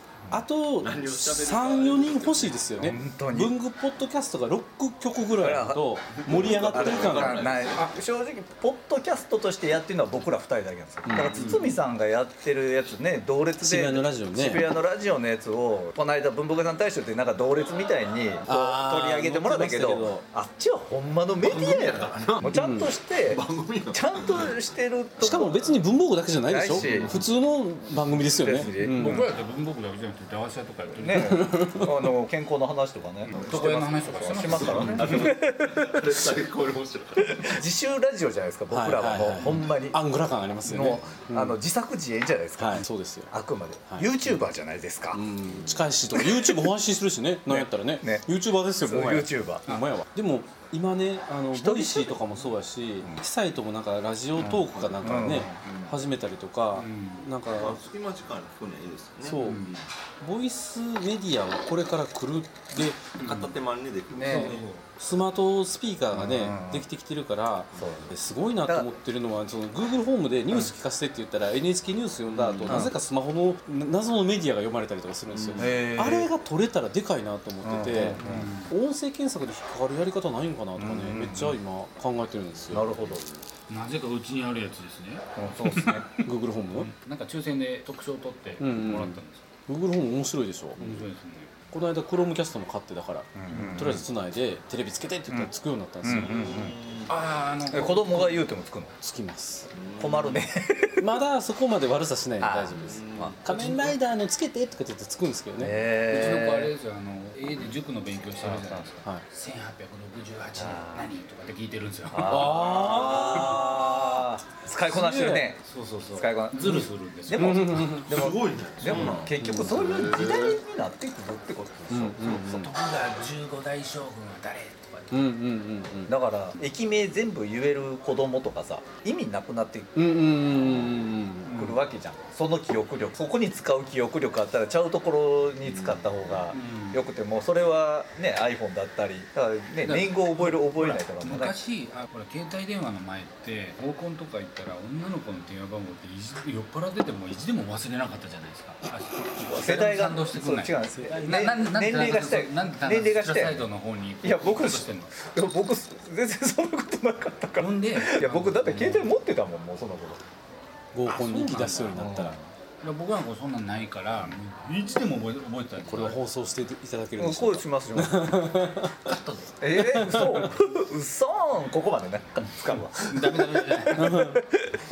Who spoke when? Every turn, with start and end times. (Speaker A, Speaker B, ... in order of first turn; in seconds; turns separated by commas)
Speaker A: 0.3-7.4, Speaker B: 0.8-2.7, Speaker C: 2.8-3.5, Speaker C: 5.4-5.8, Speaker B: 6.2-7.9, Speaker C: 6.5-25.8, Speaker A: 11.1-11.5, Speaker D: 11.3-11.8, Speaker A: 13.6-14.7, Speaker A: 18.5-20.2, Speaker B: 21.4-22.6, Speaker A: 22.4-22.9, Speaker B: 23.3-24.5, Speaker A: 25.2-29.3, Speaker C: 26.5-27.2, Speaker C: 28.2-29.2, Speaker D: 28.8-31.5, Speaker C: 31.0-36.1, Speaker A: 31.1-32.1, Speaker D: 33.3-35.3, Speaker B: 34.4-37.5, Speaker C: 37.4-40.0, Speaker A: 38.7-41.6, Speaker C: 40.6-45.2, Speaker A: 42.6-43.3, Speaker A: 43.9-44.4, Speaker A: 45.1-57.8, Speaker C: 46.1-46.5, Speaker C: 47.5-48.3, Speaker C: 48.8-49.6, Speaker C: 51.5-52.2, Speaker C: 54.4-56.0, Speaker D: 56.7-57.3, Speaker B: 57.5-59.4, Speaker A: 59.2-59.6, Speaker D: 59.4-59.9, Speaker A: 60.2-63.0, Speaker B: 63.2-64.7, Speaker D: 63.2-63.5, Speaker C: 64.1-64.6, Speaker D: 64.2-64.9, Speaker A: 65.0-83.2, Speaker C: 66.1-66.9, Speaker C: 67.8-68.1, Speaker C: 68.6-68.9, Speaker C: 72.4-72.9, Speaker B: 72.4-72.9, Speaker B: 75.4-75.8, Speaker C: 75.6-76.3, Speaker C: 77.6-78.5, Speaker D: 78.1-78.7, Speaker C: 80.8-81.6, Speaker C: 82.7-83.3, Speaker D: 83.7-86.1, Speaker C: 85.4-86.0, Speaker A: 86.2-86.9, Speaker D: 86.8-89.5, Speaker A: 88.6-90.9, Speaker D: 90.8-91.5, Speaker A: 91.7-96.7, Speaker C: 93.4-94.1, Speaker C: 96.0-96.8, Speaker B: 96.1-97.1, Speaker D: 97.1-98.5, Speaker C: 97.7-98.9, Speaker A: 99.0-99.7, Speaker B: 99.7-100.5, Speaker C: 100.0-101.1, Speaker A: 101.0-105.8, Speaker C: 102.4-103.9, Speaker B: 102.8-103.8, Speaker C: 105.6-106.7, Speaker D: 106.1-113.6, Speaker C: 108.4-108.9, Speaker C: 110.6-111.1, Speaker C: 112.1-115.6, Speaker A: 112.2-113.9, Speaker A: 114.9-115.5, Speaker D: 115.6-118.0, Speaker C: 116.2-122.2, Speaker A: 117.4-118.2, Speaker B: 118.0-120.6, Speaker A: 118.9-120.3, Speaker A: 121.9-122.7, Speaker D: 122.2-125.3, Speaker A: 125.1-126.1, Speaker C: 126.1-129.9, Speaker A: 129.9-131.7, Speaker C: 130.6-130.9, Speaker D: 131.5-131.8, Speaker C: 131.5-141.6, Speaker B: 135.7-136.4, Speaker D: 136.5-137.0, Speaker D: 139.8-155.1, Speaker C: 149.5-153.7, Speaker A: 150.9-151.6, Speaker C: 154.2-160.2, Speaker D: 157.6-159.1, Speaker A: 160.9-162.4, Speaker D: 161.1-162.1, Speaker C: 162.0-162.5, Speaker D: 162.8-166.2, Speaker A: 165.8-169.1, Speaker C: 167.2-168.5, Speaker C: 169.1-174.7, Speaker A: 169.8-170.5, Speaker D: 173.1-174.2, Speaker A: 174.0-174.4